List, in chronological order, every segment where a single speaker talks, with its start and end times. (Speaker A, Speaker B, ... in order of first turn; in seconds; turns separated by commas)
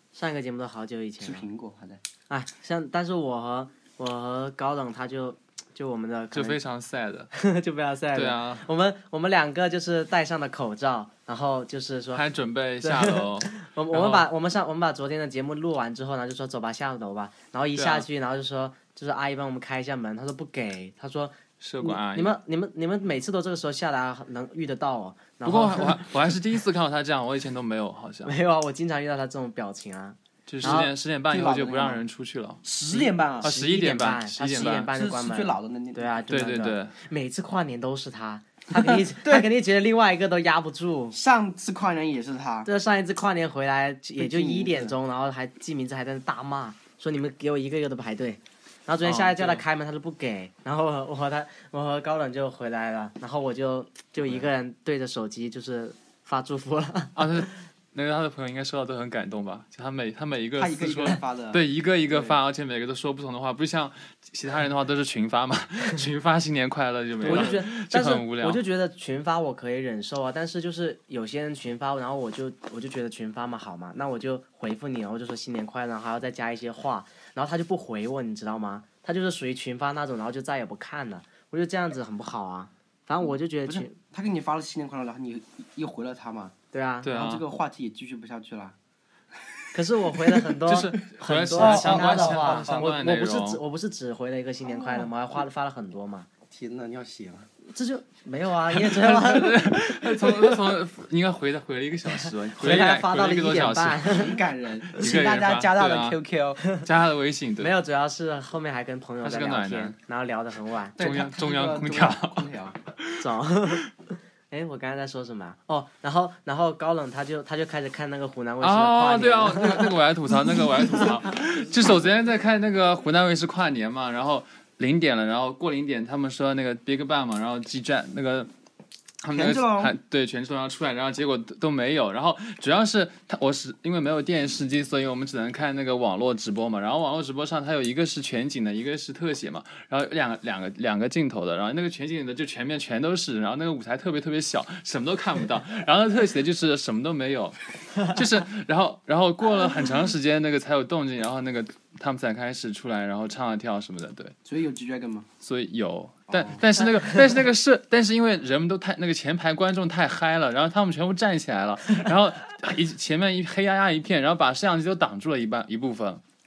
Speaker A: 0.1-1.4, Speaker B: 1.2-2.0, Speaker A: 2.3-6.6, Speaker C: 6.3-7.3, Speaker A: 7.3-12.2, Speaker C: 8.1-8.6, Speaker C: 12.1-14.3, Speaker A: 12.8-26.1, Speaker C: 17.8-18.1, Speaker C: 21.6-22.3, Speaker C: 25.4-28.3, Speaker A: 28.2-30.9, Speaker C: 30.5-32.6, Speaker B: 30.6-32.0, Speaker B: 32.6-33.5, Speaker A: 32.9-41.2, Speaker C: 33.4-34.9, Speaker B: 34.9-36.2, Speaker C: 36.3-36.9, Speaker B: 38.7-39.5, Speaker B: 41.1-42.7, Speaker A: 42.6-57.4, Speaker B: 44.2-45.0, Speaker C: 49.0-49.6, Speaker C: 57.1-68.6, Speaker B: 60.5-62.3, Speaker B: 67.2-67.6, Speaker A: 67.2-84.0, Speaker B: 83.6-86.5, Speaker A: 86.7-87.1, Speaker C: 87.0-87.4, Speaker B: 87.0-88.8, Speaker A: 89.7-96.3, Speaker B: 90.2-90.5, Speaker C: 90.7-93.6, Speaker B: 91.5-92.9, Speaker B: 94.6-95.1, Speaker B: 96.5-97.5, Speaker A: 97.7-99.7, Speaker C: 98.7-104.2, Speaker B: 100.2-100.6, Speaker A: 102.1-104.4, Speaker B: 104.0-106.6, Speaker C: 104.9-106.2, Speaker C: 106.8-107.7, Speaker A: 107.6-111.0, Speaker C: 109.2-110.0, Speaker B: 111.0-112.8, Speaker C: 111.0-113.8, Speaker A: 113.2-113.9, Speaker A: 114.5-120.0, Speaker C: 118.6-128.5, Speaker C: 129.2-154.3, Speaker B: 129.3-129.9, Speaker B: 154.4-155.3, Speaker C: 155.4-166.2, Speaker B: 156.3-156.6